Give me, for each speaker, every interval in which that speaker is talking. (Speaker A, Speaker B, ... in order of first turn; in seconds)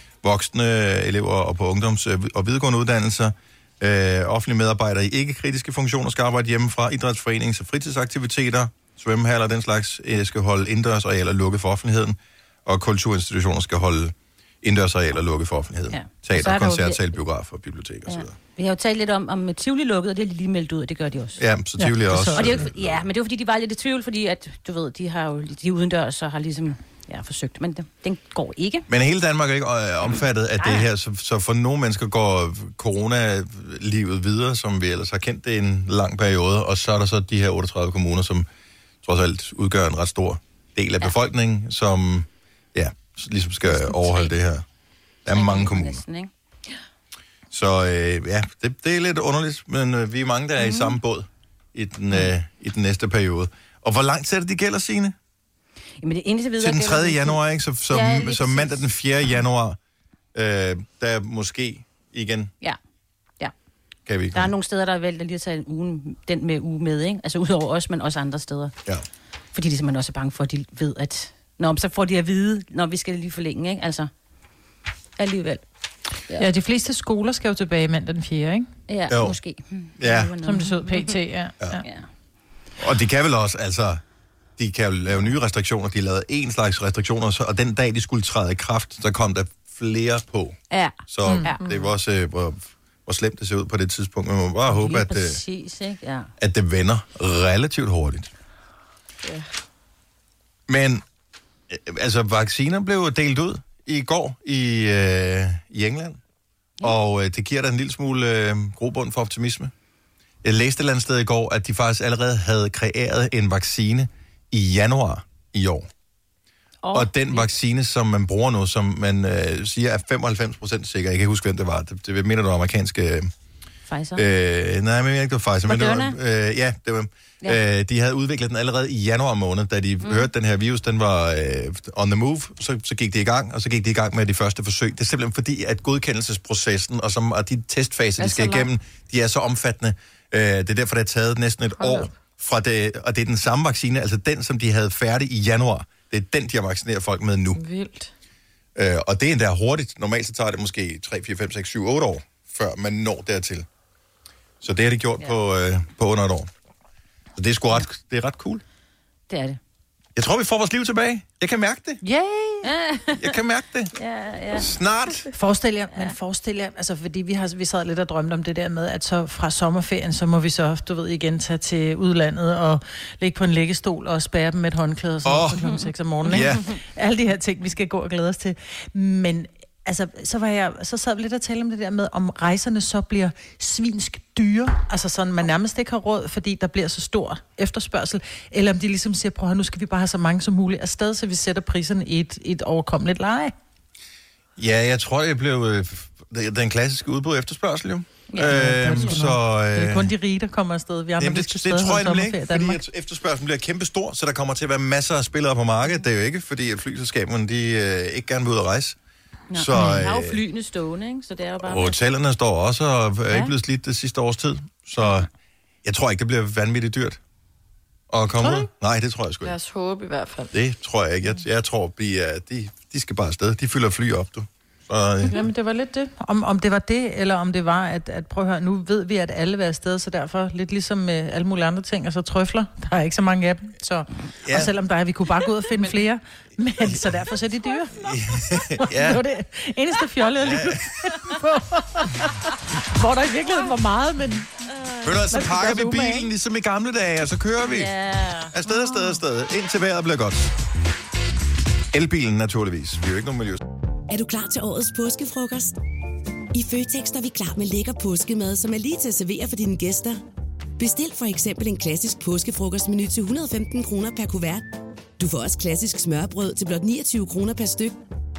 Speaker A: 0.2-18.3, 21.4-23.1, 28.9-38.5, 39.0-44.6, 45.2-46.0, 47.5-55.2, 56.6-59.8, 60.3-62.5, 64.1-64.5, 79.1-79.4, 80.0-80.3, 82.8-84.0, 84.6-95.4, 96.4-98.3, 100.7-101.0, 101.7-106.2, 106.8-109.7, 110.4-115.9, 116.9-123.3, 124.2-147.6, 148.8-153.7, 154.6-156.5, 157.4-158.6, 160.2-162.0, 163.1-163.9, 164.6-165.3, 175.2-176.7, 194.6-200.1, 201.2-209.0, 209.5-210.4, 211.6-215.3, 215.8-217.2, 218.1-219.6, 220.5-225.4, 234.4-234.7, 238.0-239.2, 240.4-241.2, 245.0-247.9, 248.5-250.5, 251.9-253.6
Speaker B: 15.9-17.1, 18.1-21.4, 22.3-28.9, 30.6-30.9, 43.6-44.3, 45.3-46.3, 50.6-51.0, 56.0-58.8, 64.3-68.7, 69.5-74.1, 75.2-75.6, 78.9-81.2, 90.7-91.6, 94.7-96.3, 116.8-117.5, 123.9-124.2, 125.7-126.2, 130.0-130.3, 159.3-159.6, 162.6-163.4, 163.9-164.7, 198.3-199.2, 209.5-212.0, 247.7-248.5
Speaker C: 21.8-22.6, 76.4-78.7, 80.4-81.8, 91.2-91.5, 162.0-162.7, 165.3-193.5, 198.4-202.8, 225.3-238.1, 238.8-244.5, 245.3-246.3
Speaker D: 91.6-91.9, 99.2-99.5, 138.2-138.7, 141.8-142.1, 147.5-148.1, 219.4-220.5
Speaker E: 254.1-255.8, 256.5-260.2, 260.8-264.7, 265.2-268.0